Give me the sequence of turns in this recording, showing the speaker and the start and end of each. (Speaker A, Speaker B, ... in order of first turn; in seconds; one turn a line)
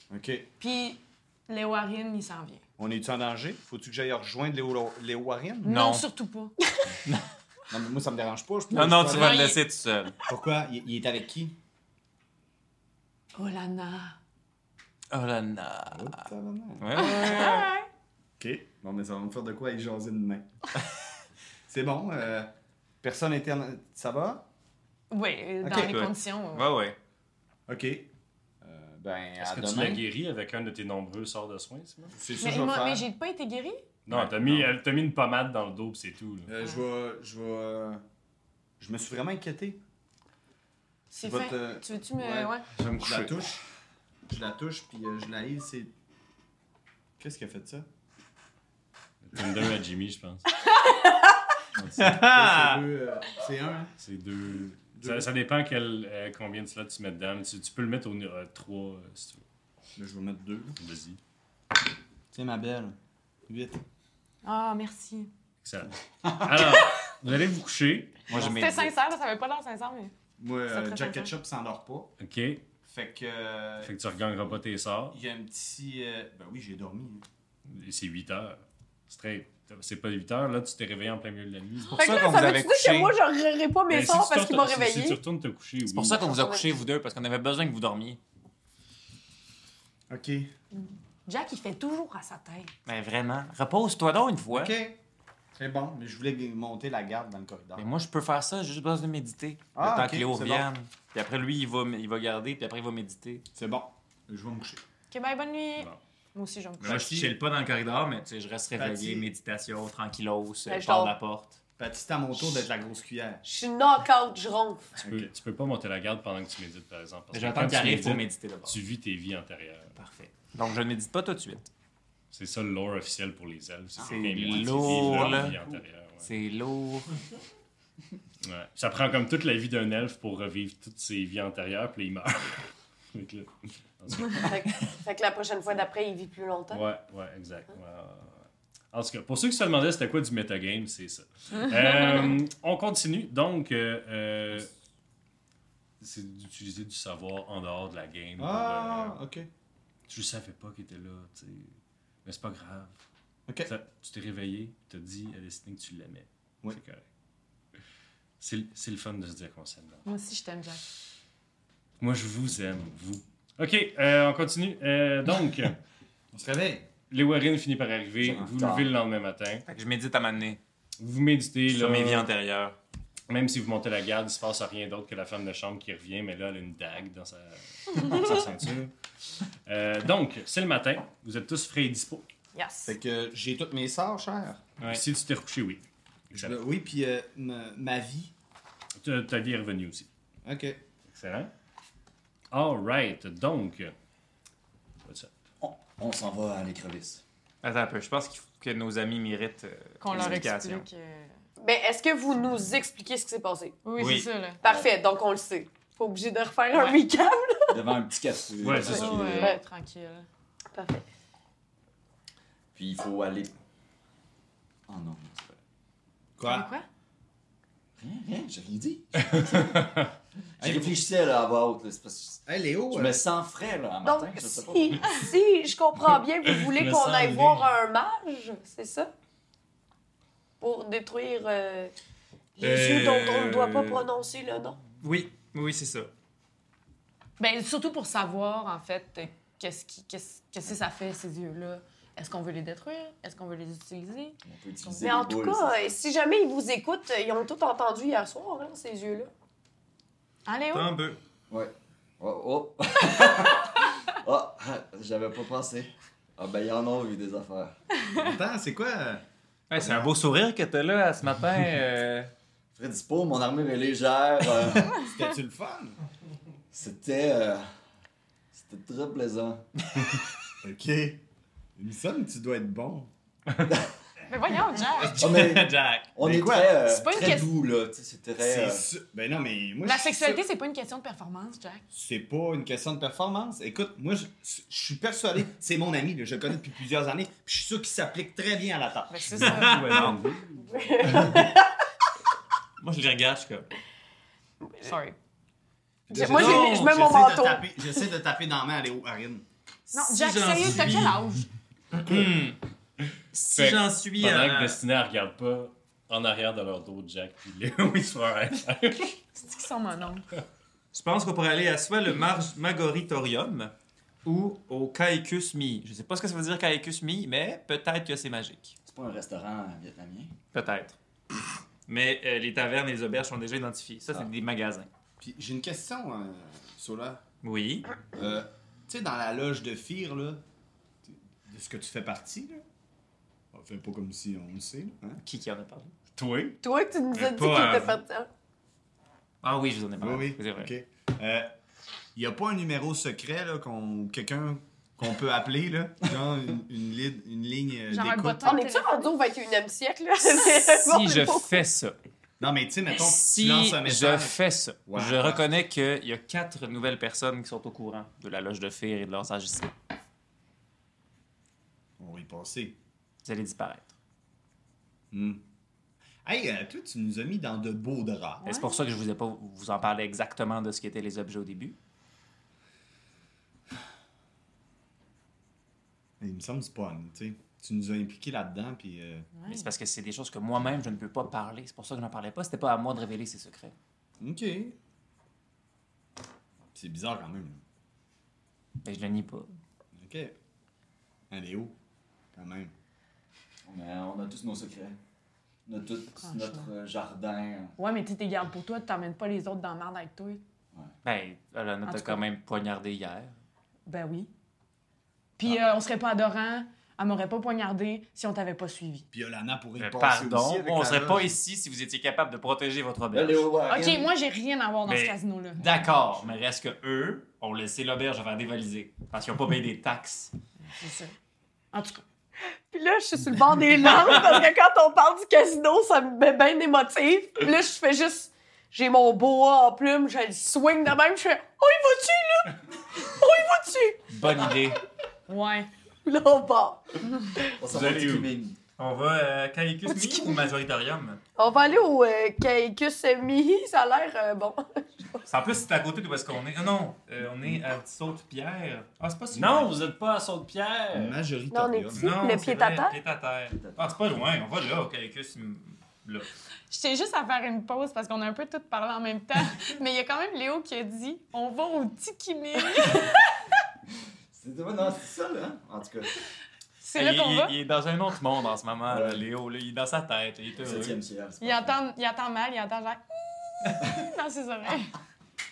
Speaker A: 0.1-0.5
Speaker B: 0.6-2.6
Speaker A: 2.8-5.7
Speaker B: 5.6-6.5
Speaker C: 5.7-6.0
Speaker D: 6.6-7.0
Speaker A: 7.7-9.5
Speaker C: 8.7-10.2
Speaker B: 8.9-9.6
Speaker A: 10.3-11.6
Speaker B: 13.3-14.2
Speaker C: 15.1-16.3
Speaker A: 15.9-16.9
Speaker C: 16.8-17.7
Speaker B: 16.9-17.9
Speaker A: 18.4-20.9
Speaker A: 21.7-22.5
Speaker A: 23.0-24.4
Speaker B: 25.1-26.7
Speaker A: 25.6-26.0
Speaker C: 25.7-27.0
Speaker A: 27.7-28.1
Speaker A: 28.6-30.0
Speaker E: 29.4-32.2
Speaker A: 32.2-33.1
Speaker B: 32.4-33.9
Speaker E: 34.1-36.5
Speaker A: 34.1-34.7
Speaker A: 36.5-38.0
Speaker A: 38.8-39.8
Speaker B: 41.1-42.7
Speaker A: 41.2-43.6
Speaker C: 42.8-43.4
Speaker A: 44.3-45.9
Speaker A: 47.2-47.9
Speaker E: 49.2-50.5
Speaker E: 51.8-52.2
Speaker C: 52.0-52.8
Speaker A: 52.0-53.9
Speaker E: 54.0-59.4
Speaker A: 55.0-55.3
Speaker A: 60.0-60.8
Speaker E: 60.8-61.2
Speaker A: 62.3-63.0
Speaker A: 63.5-63.8
Speaker B: 64.4-65.3
Speaker E: 65.6-68.3
Speaker C: 68.3-68.9
Speaker A: 68.3-68.8
Speaker B: 68.3-70.1
Speaker A: 70.4-72.1
Speaker B: 70.7-71.3
Speaker E: 72.2-72.6
Speaker A: 72.9-73.9
Speaker E: 73.8-75.2
Speaker A: 75.1-77.2
Speaker E: 77.7-82.3
Speaker C: 81.9-83.1
Speaker D: 81.9-85.2
Speaker E: 83.9-86.2
Speaker C: 85.9-88.2
Speaker D: 86.2-86.8
Speaker A: 90.1-90.5
Speaker B: 90.7-92.7
Speaker C: 92.9-94.7
Speaker A: 94.5-95.0
Speaker A: 95.5-97.8
Speaker C: 97.8-103.5
Speaker A: 99.8-100.7
Speaker A: 103.5-104.8
Speaker B: 105.1-107.0
Speaker C: 106.8-111.6
Speaker A: 106.8-107.3
Speaker A: 108.8-109.3
Speaker D: 110.7-111.1
Speaker A: 111.8-113.4
Speaker D: 113.4-115.0
Speaker E: 115.0-120.0
Speaker A: 115.0-115.3
Speaker C: 117.3-118.8
Speaker C: 120.0-121.7
Speaker E: 122.3-126.3
Speaker C: 124.0-125.6
Speaker A: 124.1-125.7
Speaker F: 124.4-125.2
Speaker C: 126.2-127.1
Speaker E: 128.4-134.9
Speaker D: 134.4-136.8
Speaker E: 136.7-144.7
Speaker E: 146.0-149.2
Speaker A: 148.4-149.5
Speaker E: 150.1-151.7
Speaker E: 152.2-152.9
Speaker E: 153.7-157.0
Speaker E: 158.4-160.0
Speaker B: 160.1-160.8
Speaker E: 162.0-165.8
Speaker A: 166.3-166.9
Speaker E: 167.1-169.7
Speaker F: 168.2-168.9
Speaker C: 169.7-170.6
Speaker E: 171.0-172.3
Speaker C: 171.7-172.8
Speaker E: 173.3-178.9
Speaker E: 179.7-182.3
Speaker B: 182.5-183.0
Speaker A: 182.9-184.6
Speaker E: 184.8-186.6
Speaker A: 186.3-188.3
Speaker E: 189.0-190.1
Speaker A: 190.4-190.8
Speaker E: 191.1-191.5
Speaker E: 192.5-193.9
Speaker E: 195.1-195.3
Speaker F: 195.6-197.2
Speaker C: 197.6-200.8
Speaker B: 200.0-201.3
Speaker D: 201.6-203.8
Speaker B: 203.8-204.6
Speaker C: 204.0-204.3
Speaker D: 204.6-207.7
Speaker F: 207.7-209.6
Speaker E: 208.6-209.2
Speaker D: 208.9-209.6
Speaker B: 208.9-210.3
Speaker D: 210.7-211.1
Speaker F: 212.8-213.5
Speaker F: 214.9-215.6
Speaker A: 216.4-216.7
Speaker B: 216.4-216.9
Speaker F: 218.0-219.8
Speaker E: 219.3-220.1
Speaker F: 220.6-225.1
Speaker A: 220.6-221.0
Speaker A: 222.5-223.2
Speaker D: 224.1-229.1
Speaker E: 226.4-227.7
Speaker D: 230.6-231.9
Speaker C: 232.6-234.0
Speaker D: 232.6-234.8
Speaker C: 235.0-236.1
Speaker B: 237.4-245.2
Speaker F: 244.4-246.0
Speaker D: 245.0-249.3
Speaker B: 250.5-250.9
Speaker C: 250.7-251.2
Speaker F: 251.5-257.8
Speaker A: 258.2-259.2
Speaker C: 259.7-262.3
Speaker A: 259.8-260.1
Speaker F: 262.8-265.0
Speaker A: 265.0-266.0
Speaker F: 266.7-267.7
Speaker F: 268.5-269.6
Speaker A: 270.6-271.2
Speaker A: 271.8-273.1
Speaker B: 274.3-275.2
Speaker C: 274.9-276.1
Speaker F: 275.2-278.9
Speaker A: 276.2-276.8
Speaker B: 276.8-277.5
Speaker A: 278.4-280.4
Speaker B: 279.8-281.9
Speaker A: 281.9-290.1
Speaker B: 289.1-290.2
Speaker E: 289.4-291.4
Speaker C: 289.4-290.2
Speaker D: 290.6-291.7
Speaker C: 292.8-293.7
Speaker B: 294.8-295.2
Speaker A: 296.1-299.5
Speaker D: 296.1-298.0
Speaker C: 296.3-297.0
Speaker B: 299.9-301.5
Speaker C: 299.9-301.2
Speaker C: 301.9-302.6
Speaker C: 303.3-304.8
Speaker E: 303.4-309.2
Speaker B: 309.4-310.3
Speaker C: 310.9-313.7
Speaker C: 314.2-318.8
Speaker F: 318.9-320.4
Speaker C: 320.5-321.0
Speaker C: 321.9-324.9
Speaker A: 325.2-327.2
Speaker C: 327.4-327.9
Speaker A: 328.1-330.4
Speaker A: 331.1-332.6
Speaker A: 333.5-335.2
Speaker C: 335.2-335.9
Speaker E: 336.2-336.6
Speaker D: 336.6-338.3
Speaker C: 337.1-338.0
Speaker C: 339.4-340.7
Speaker A: 340.0-341.5
Speaker A: 342.1-348.6
Speaker B: 347.9-349.1
Speaker D: 348.4-351.6
Speaker C: 350.7-352.0
Speaker A: 352.4-355.5
Speaker C: 352.9-359.7
Speaker A: 362.0-362.8
Speaker C: 363.2-363.9
Speaker A: 365.1-365.4
Speaker A: 366.2-368.4
Speaker B: 368.4-368.8
Speaker C: 368.4-371.8
Speaker A: 376.2-379.3
Speaker B: 379.4-379.7
Speaker C: 379.5-383.8
Speaker A: 384.2-384.8
Speaker A: 386.8-387.6
Speaker C: 388.8-389.6
Speaker A: 389.9-390.4
Speaker A: 391.3-391.7
Speaker A: 392.4-392.7
Speaker F: 393.7-395.0
Speaker F: 395.7-397.8
Speaker B: 396.2-396.7
Speaker B: 397.8-400.4
Speaker C: 401.0-403.4
Speaker B: 401.9-402.2
Speaker B: 403.9-404.3
Speaker B: 405.4-409.1
Speaker A: 409.1-411.4
Speaker C: 409.8-413.5
Speaker F: 413.1-414.1
Speaker B: 413.6-415.6
Speaker C: 414.9-420.3
Speaker B: 420.7-421.1
Speaker B: 421.7-422.0
Speaker D: 422.7-434.4
Speaker C: 434.1-434.8
Speaker B: 435.3-435.7
Speaker D: 436.1-437.6
Speaker F: 437.5-438.6
Speaker E: 437.7-438.3
Speaker C: 438.8-441.2
Speaker D: 441.4-445.3
Speaker C: 445.3-449.7
Speaker E: 449.3-451.2
Speaker A: 450.9-452.1
Speaker D: 451.5-452.9
Speaker C: 451.9-456.3
Speaker F: 453.5-454.0
Speaker B: 456.7-463.2
Speaker F: 464.3-466.1
Speaker B: 466.8-467.5
Speaker C: 466.9-471.0
Speaker F: 468.9-469.2
Speaker F: 470.6-471.8
Speaker B: 471.4-475.0